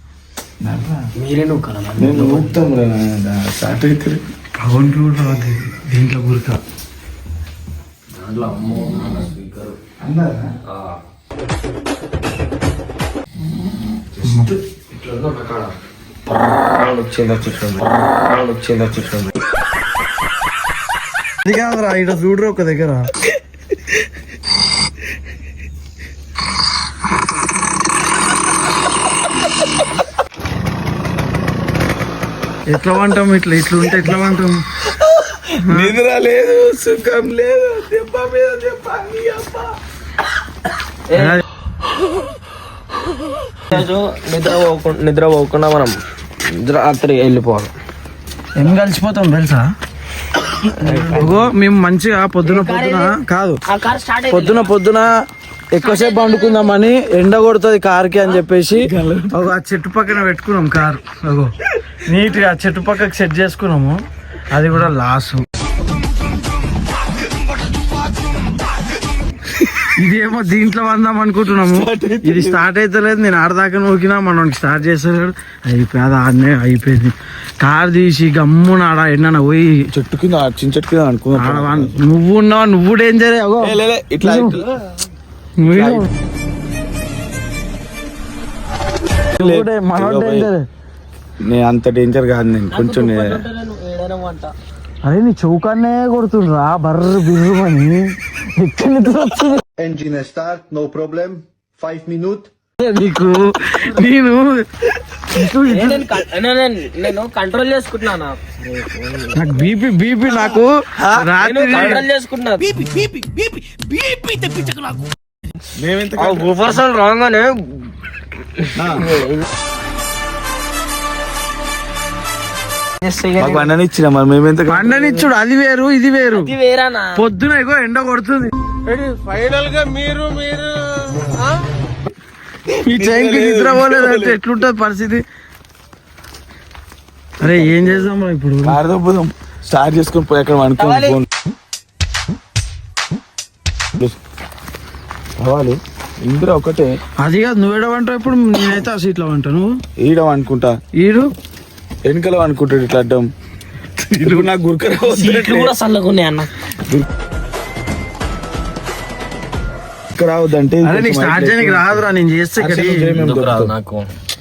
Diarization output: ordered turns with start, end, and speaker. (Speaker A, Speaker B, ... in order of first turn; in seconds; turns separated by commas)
Speaker A: 0.6-1.0, Speaker B: 1.2-2.5, Speaker A: 2.0-4.2, Speaker C: 4.6-6.6, Speaker B: 8.2-9.8, Speaker A: 9.9-10.5, Speaker C: 14.2-14.5, Speaker B: 15.0-15.7, Speaker B: 16.5-19.3, Speaker C: 21.4-23.1, Speaker C: 32.7-34.6, Speaker A: 35.0-39.7, Speaker C: 35.7-36.0, Speaker B: 41.1-41.4, Speaker C: 41.1-41.4, Speaker B: 43.7-46.0, Speaker B: 46.5-47.7, Speaker C: 48.6-49.6, Speaker B: 50.9-51.4, Speaker C: 50.9-53.6, Speaker A: 50.9-51.4, Speaker B: 52.4-54.7, Speaker C: 54.3-55.1, Speaker C: 55.7-61.5, Speaker B: 55.8-56.8, Speaker A: 58.8-59.3, Speaker C: 62.0-64.0, Speaker C: 64.5-65.4, Speaker C: 70.0-79.7, Speaker A: 71.5-72.7, Speaker A: 80.0-82.0, Speaker C: 81.4-84.6, Speaker A: 83.6-84.7, Speaker C: 85.6-86.1, Speaker A: 85.6-86.1, Speaker A: 89.4-90.5, Speaker C: 89.4-90.6, Speaker A: 91.4-93.5, Speaker B: 92.7-94.5, Speaker C: 95.0-99.6, Speaker D: 99.8-102.5, Speaker C: 102.8-104.6, Speaker C: 105.2-106.1, Speaker B: 105.7-109.6, Speaker C: 109.3-112.0, Speaker A: 111.0-112.0, Speaker B: 111.4-115.0, Speaker A: 115.8-116.8, Speaker B: 116.2-117.9, Speaker B: 118.5-119.5, Speaker A: 118.8-119.1, Speaker B: 123.0-123.7, Speaker A: 123.4-125.1, Speaker C: 124.7-126.5, Speaker B: 126.3-127.1, Speaker C: 127.2-128.5, Speaker B: 128.9-130.6, Speaker A: 132.8-134.4, Speaker C: 132.8-135.2, Speaker C: 137.4-138.8, Speaker A: 137.4-138.1, Speaker A: 138.6-141.3, Speaker B: 140.8-141.2, Speaker A: 145.4-146.9, Speaker C: 147.2-149.7, Speaker A: 150.0-150.7, Speaker C: 151.0-151.3, Speaker A: 152.1-153.3, Speaker C: 154.1-154.5, Speaker A: 154.2-155.7, Speaker B: 155.0-156.5, Speaker A: 160.2-162.0, Speaker C: 160.8-163.2, Speaker A: 162.6-163.7, Speaker B: 163.2-164.1